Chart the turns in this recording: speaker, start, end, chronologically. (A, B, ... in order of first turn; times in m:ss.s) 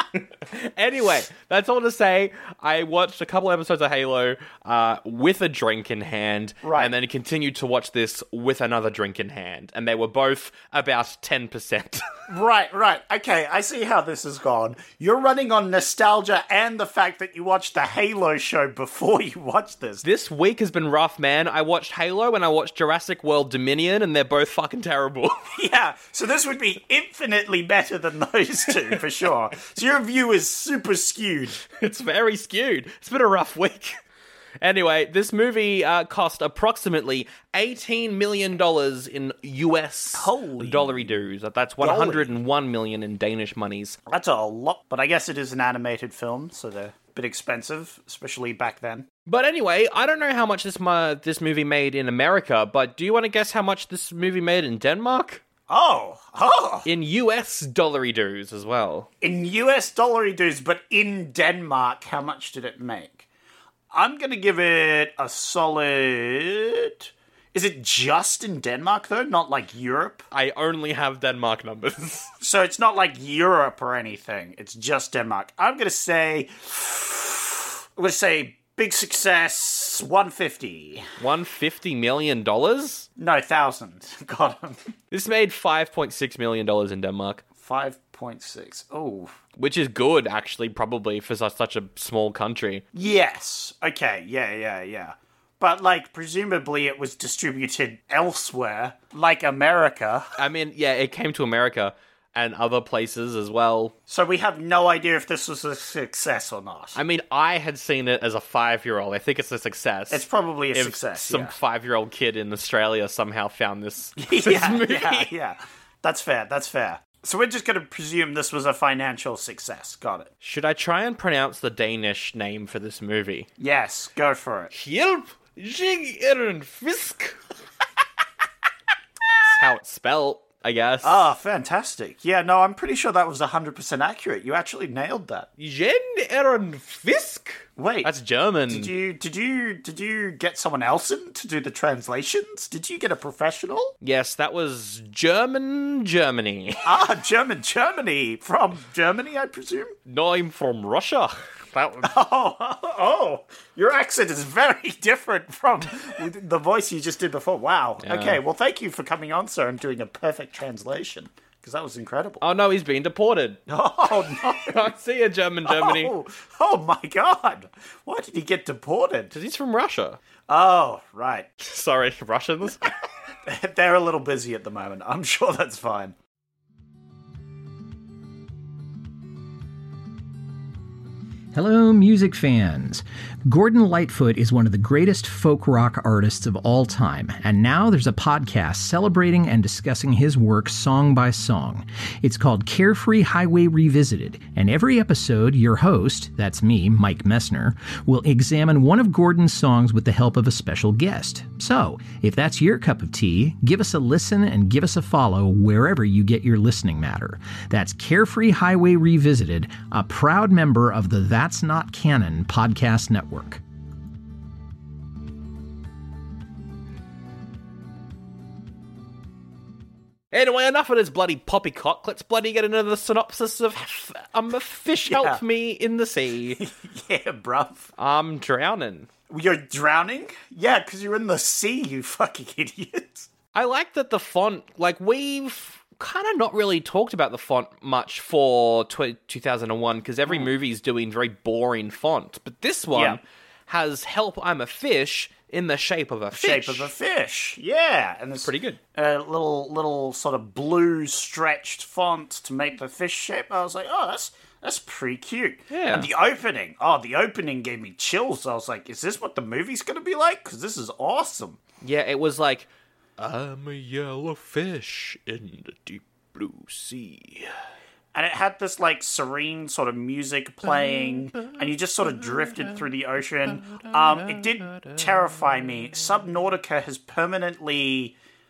0:00.5-0:12.0 A
0:06.6-0:06.9 B
0:12.3-0:20.0 B
0:20.0-0:25.5 A
0:25.5-0:31.6 B
0:31.6-0:34.0 A
0:34.6-0:44.0 A
0:40.2-0:41.2 B
0:41.8-0:42.3 B
0:44.1-0:49.1 B
0:49.3-0:55.4 A
0:55.7-0:56.9 B
0:56.9-0:59.1 A
0:59.2-1:03.3 B
1:03.9-1:10.3 B
1:10.3-1:12.3 A
1:12.4-1:21.1 B
1:21.2-1:23.1 A
1:23.2-1:24.9 B
1:25.1-1:27.4 A
1:27.6-1:29.4 B
1:29.6-1:32.8 A
1:32.9-1:40.4 B
1:40.4-1:43.9 A
1:44.1-1:47.0 B
1:47.0-1:55.3 A
1:50.1-1:51.6 B
1:54.2-2:00.3 B
2:00.4-2:03.5 A
2:03.6-2:04.7 B
2:04.7-2:07.4 A
2:09.4-2:11.2 A
2:11.0-2:15.5 B
2:15.6-2:18.9 A
2:17.8-2:18.1 B
2:18.7-2:23.9 B
2:24.0-2:26.8 A
2:26.8-2:30.0 B
2:30.1-2:32.1 A
2:32.0-2:42.4 B
2:38.0-2:38.4 A
2:42.4-2:43.6 A
2:43.7-2:44.9 B
2:44.6-2:46.1 A
2:45.7-2:49.3 B
2:49.3-2:50.2 A
2:50.5-2:51.5 B
2:51.6-2:53.0 A
2:53.5-2:56.2 B
3:01.5-3:33.6 C
3:40.3-3:46.6 A
3:45.1-3:45.4 B
3:46.6-3:47.9 B
3:48.0-3:49.1 A
3:49.3-3:53.3 B
3:53.5-4:06.9 A
4:02.9-4:03.2 B
4:06.3-4:21.6 B
4:08.4-4:08.8 A
4:15.7-4:16.1 A
4:21.8-4:27.5 A
4:28.1-4:38.2 B
4:30.7-4:31.6 A
4:32.2-4:32.8 A
4:33.5-4:35.3 A